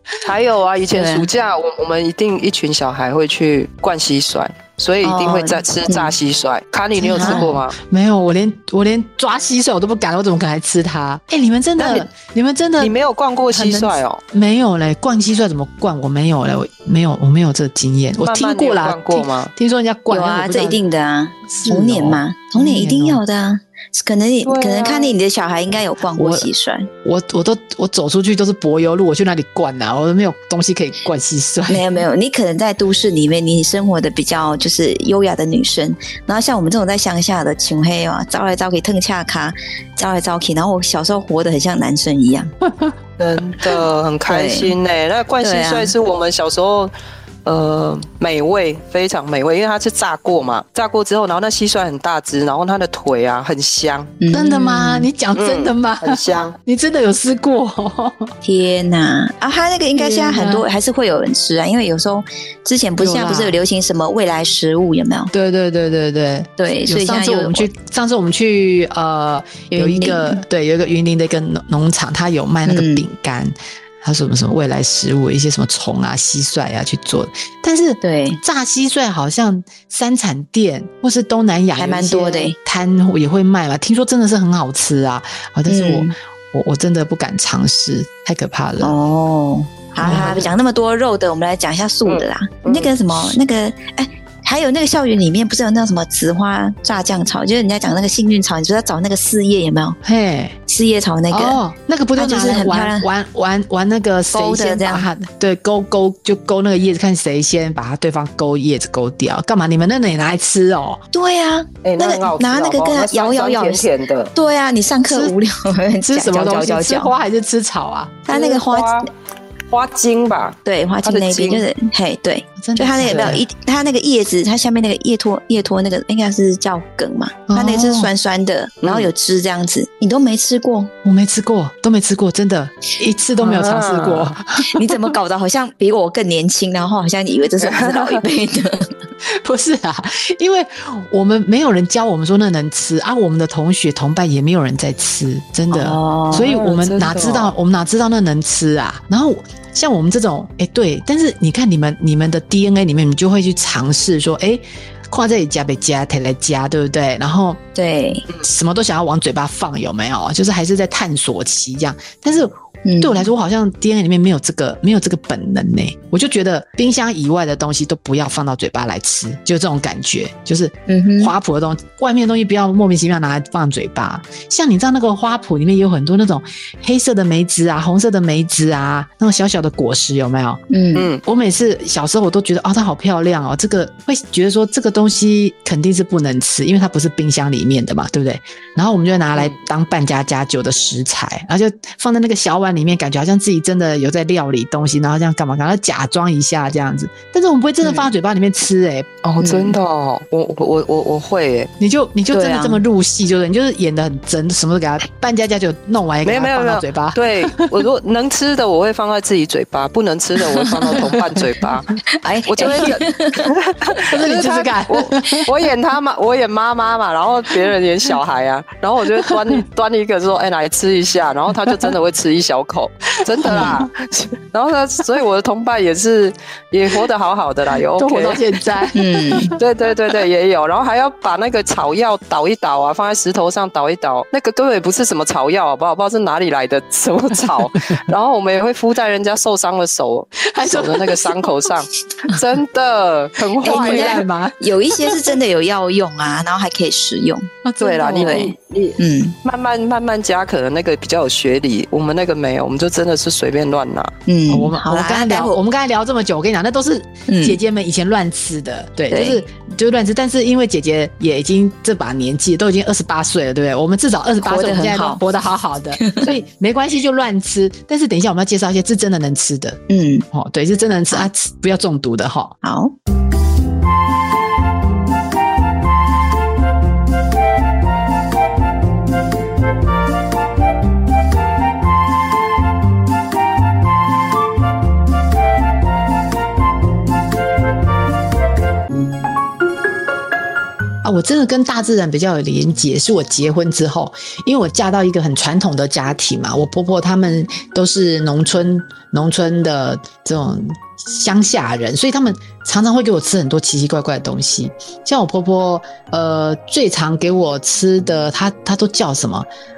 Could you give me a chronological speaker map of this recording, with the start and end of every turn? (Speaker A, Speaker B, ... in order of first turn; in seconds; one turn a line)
Speaker A: 0.2-7.8
Speaker B: 0.9-1.3
Speaker B: 5.0-6.1
Speaker C: 7.0-12.9
Speaker B: 7.2-7.5
Speaker A: 11.8-12.1
Speaker A: 12.8-14.2
Speaker C: 13.5-20.8
Speaker A: 18.2-19.5
Speaker B: 20.1-26.9
Speaker C: 21.5-23.2
Speaker A: 24.4-25.2
Speaker C: 26.1-26.5
Speaker C: 27.0-31.9
Speaker B: 31.7-42.5
Speaker A: 43.2-46.9
Speaker B: 44.3-44.7
Speaker B: 45.4-45.9
Speaker A: 47.4-54.1
Speaker B: 54.2-55.1
Speaker C: 54.3-58.3
Speaker A: 55.3-56.5
Speaker B: 58.4-65.3
Speaker C: 60.0-60.6
Speaker C: 63.0-63.6
Speaker C: 65.3-88.9
Speaker B: 66.6-67.7
Speaker B: 69.7-70.4
Speaker B: 72.7-73.0
Speaker B: 78.0-78.4
Speaker B: 81.8-82.5
Speaker B: 85.7-86.1
Speaker B: 88.8-100.0
Speaker C: 90.0-90.5
Speaker A: 92.0-92.9
Speaker C: 100.0-100.6
Speaker B: 100.7-101.6
Speaker C: 101.3-111.0
Speaker B: 102.2-103.1
Speaker B: 104.3-105.1
Speaker B: 111.1-117.1
Speaker A: 111.8-114.3
Speaker C: 116.0-118.3
Speaker B: 118.3-119.1
Speaker A: 118.3-119.1
Speaker A: 119.7-121.6
Speaker B: 120.6-130.9
Speaker C: 122.6-123.4
Speaker A: 123.1-123.3
Speaker C: 127.5-128.1
Speaker A: 128.8-129.1
Speaker C: 131.0-135.1
Speaker A: 133.4-134.3
Speaker B: 134.6-138.9
Speaker A: 137.6-138.2
Speaker C: 139.2-157.6
Speaker B: 145.7-146.5
Speaker A: 146.3-147.5
Speaker B: 157.7-158.3
Speaker C: 158.4-180.6
Speaker B: 162.8-163.3
Speaker B: 170.9-171.3
Speaker B: 180.7-181.1
Speaker A: 180.9-181.2
Speaker C: 181.2-199.1
Speaker A: 199.2-201.7
Speaker B: 199.4-199.8
Speaker C: 201.8-207.8
Speaker B: 202.3-202.8
Speaker A: 206.2-228.4
Speaker B: 212.1-213.5
Speaker C: 212.7-213.0
Speaker C: 214.0-215.5
Speaker C: 219.2-219.6
Speaker C: 221.7-221.9
Speaker C: 223.3-223.8
Speaker B: 223.4-223.8
Speaker C: 227.9-229.6
Speaker B: 228.9-229.5
Speaker A: 229.6-244.2
Speaker C: 240.5-241.7
Speaker C: 243.6-245.3
Speaker B: 243.6-247.5
Speaker C: 247.6-248.5
Speaker A: 247.8-254.1
Speaker B: 248.2-249.3
Speaker B: 254.3-255.6
Speaker C: 254.5-269.8
Speaker B: 257.3-257.6
Speaker B: 259.1-259.4
Speaker B: 264.4-265.2
Speaker B: 266.0-266.3
Speaker B: 269.9-270.3
Speaker C: 270.3-272.6
Speaker B: 272.6-272.9
Speaker C: 291.0-309.5